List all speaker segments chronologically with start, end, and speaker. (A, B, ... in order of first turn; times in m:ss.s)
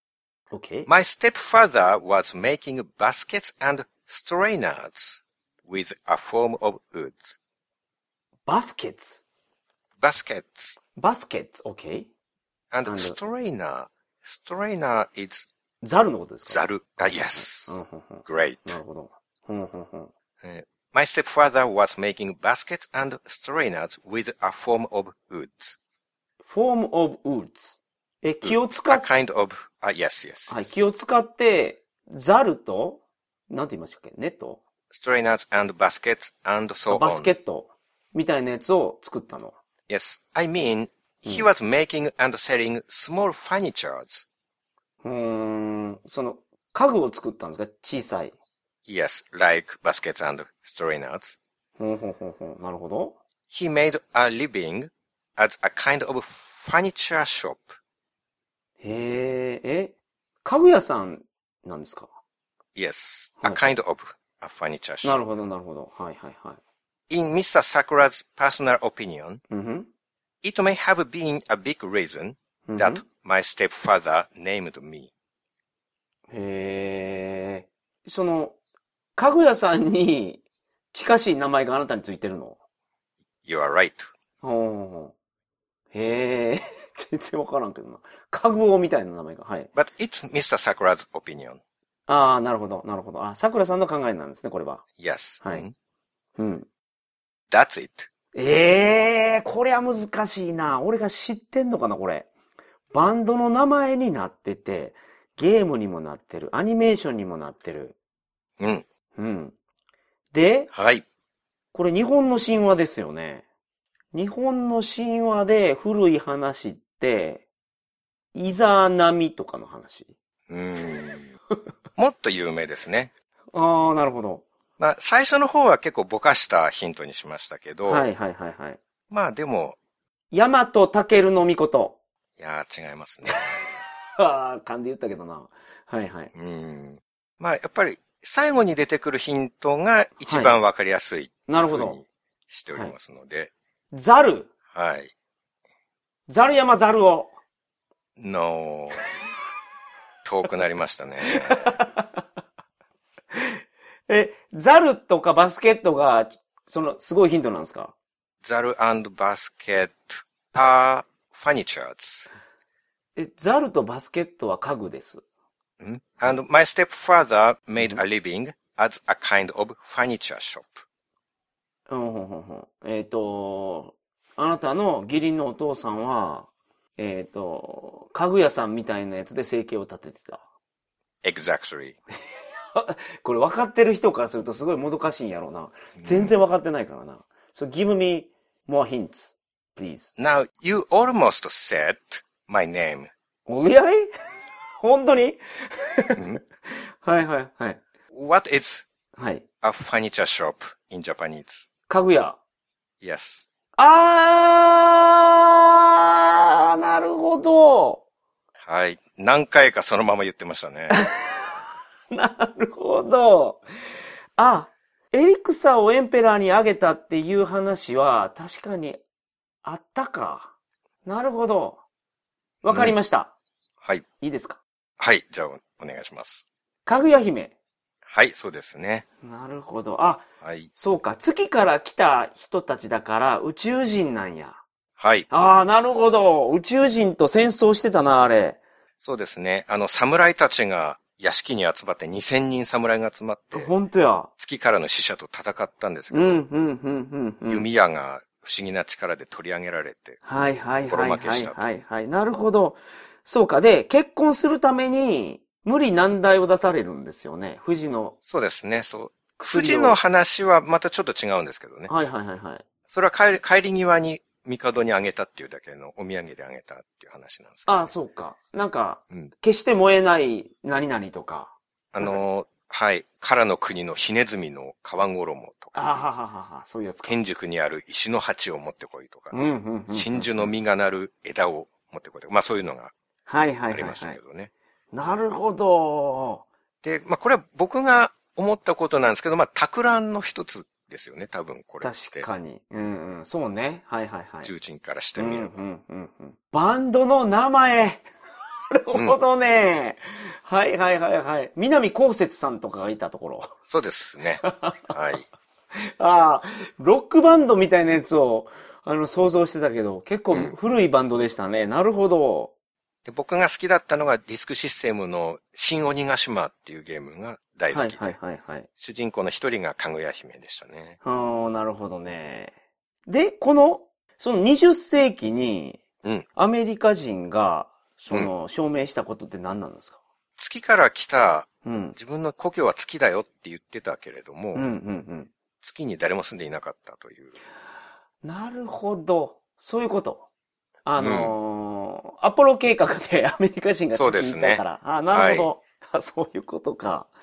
0:00.5-0:00.9 A
0:00.9-0:07.4 B
0:08.5-0:09.2 A
0:10.0-0:10.8 B
0:11.0-0:12.1 A
0:12.7-0:15.5 B
0:12.9-0:13.2 A
0:15.8-0:20.1 A
0:16.5-0:18.8 B
0:20.4-0:25.8 B
0:26.4-0:29.1 A
0:28.4-0:30.9 B
0:30.5-0:34.6 A
0:34.9-0:37.3 B
0:36.9-0:39.6 A
0:39.9-0:44.3 B
0:45.0-0:48.3 A
0:48.9-0:51.4 B
0:51.8-0:53.2 A
0:53.5-0:57.8 B
0:58.8-0:59.9 A
1:00.4-1:02.1 A
1:02.8-1:05.2 B
1:03.4-1:03.7 A
1:05.0-1:06.6 A
1:07.1-1:09.4 B
1:09.5-1:09.9 A
1:10.4-1:15.1 B
1:12.7-1:13.0 A
1:16.3-1:18.6 A
1:19.2-1:20.4 A
1:20.9-1:22.6 A
1:23.4-1:24.1 B
1:24.4-1:25.1 A
1:25.9-1:29.7 A
1:29.8-1:31.6 B
1:32.1-1:34.8 A
1:35.0-1:35.7 B
1:36.4-1:36.7 A
1:37.5-1:38.1 B
1:38.3-1:42.3 A
1:42.9-1:48.0 A
1:48.6-1:48.8 B
1:49.2-1:49.6 A
1:50.3-1:50.7 A
1:50.7-1:51.0 B
1:51.7-1:53.4 A
1:54.1-1:57.4 A
1:58.3-2:00.1 A
2:00.5-2:01.3 B
2:02.0-2:03.1 B
2:03.5-2:04.4 A
2:04.8-2:08.1 B
2:07.9-2:08.8 A
2:09.1-2:09.8 B
2:10.3-2:12.0 A
2:12.4-2:13.8 B
2:14.2-2:16.3 A
2:16.3-2:23.5 B
2:20.2-2:20.6 A
2:21.5-2:22.0 A
2:23.9-2:24.5 A
2:24.7-2:25.1 B
2:26.3-2:27.3 A
2:28.2-2:29.1 B
2:30.2-2:31.8 B
2:31.3-2:32.1 A
2:33.3-2:37.9 A
2:38.4-2:42.3 B
2:43.2-2:45.2 A
2:45.8-2:50.8 B
2:47.8-2:48.0 A
2:51.9-3:00.4 A
3:01.2-3:02.0 B
3:02.2-3:10.1 A
3:06.0-3:06.3 B
3:10.2-3:13.1 B
3:13.5-3:17.8 A
3:18.1-3:18.9 B
3:19.2-3:19.4 A
3:19.6-3:21.7 B
3:21.9-3:22.4 A
3:23.0-3:23.5 B
3:23.8-3:28.0 A
3:28.6-3:31.0 B
3:30.9-3:33.6 A
3:34.4-3:39.0 A
3:39.6-3:40.5 A
3:41.0-3:41.8 A
3:42.6-3:43.3 A
3:42.6-3:43.0 B
3:44.2-3:44.6 A
3:45.0-3:46.5 B
3:46.9-3:47.5 A
3:48.1-3:49.0 B
3:49.2-3:50.2 A
3:50.4-3:50.7 B
3:50.8-3:54.6 A
3:55.0-3:55.3 B
3:55.3-3:58.6 A
3:59.0-4:03.7 B
4:03.5-4:04.3 A
4:04.4-4:06.4 B
4:06.1-4:07.7 A
4:07.4-4:10.2 B
4:10.3-4:18.2 A
4:10.9-4:11.6 B
4:18.3-4:21.9 B
4:19.4-4:20.0 A
4:21.9-4:22.6 A
4:22.9-4:27.9 B
4:27.7-4:32.2 A
4:31.9-4:36.1 B
4:35.8-4:37.2 A
4:37.1-4:42.9 B
4:39.3-4:40.5 A
4:43.3-4:44.2 A
4:43.7-4:44.5 B
4:44.9-4:46.4 A
4:46.8-4:52.3 B
4:51.8-4:54.5 A
4:54.4-4:55.6 B
4:55.2-4:58.1 A
4:58.7-5:03.5 A
5:03.7-5:05.3 B
5:04.4-5:05.0 A
5:05.8-5:12.5 A
5:13.0-5:18.1 B
5:17.7-5:18.7 A
5:18.8-5:21.0 B
5:21.0-5:22.5 A
5:23.1-5:25.8 A
5:26.4-5:30.0 A
5:30.4-5:34.7 B
5:31.6-5:32.0 A
5:34.6-5:35.3 A
5:35.6-5:37.4 B
5:38.2-5:40.3 A
5:40.8-5:47.1 A
5:41.0-5:41.3 B
5:43.9-5:45.5 B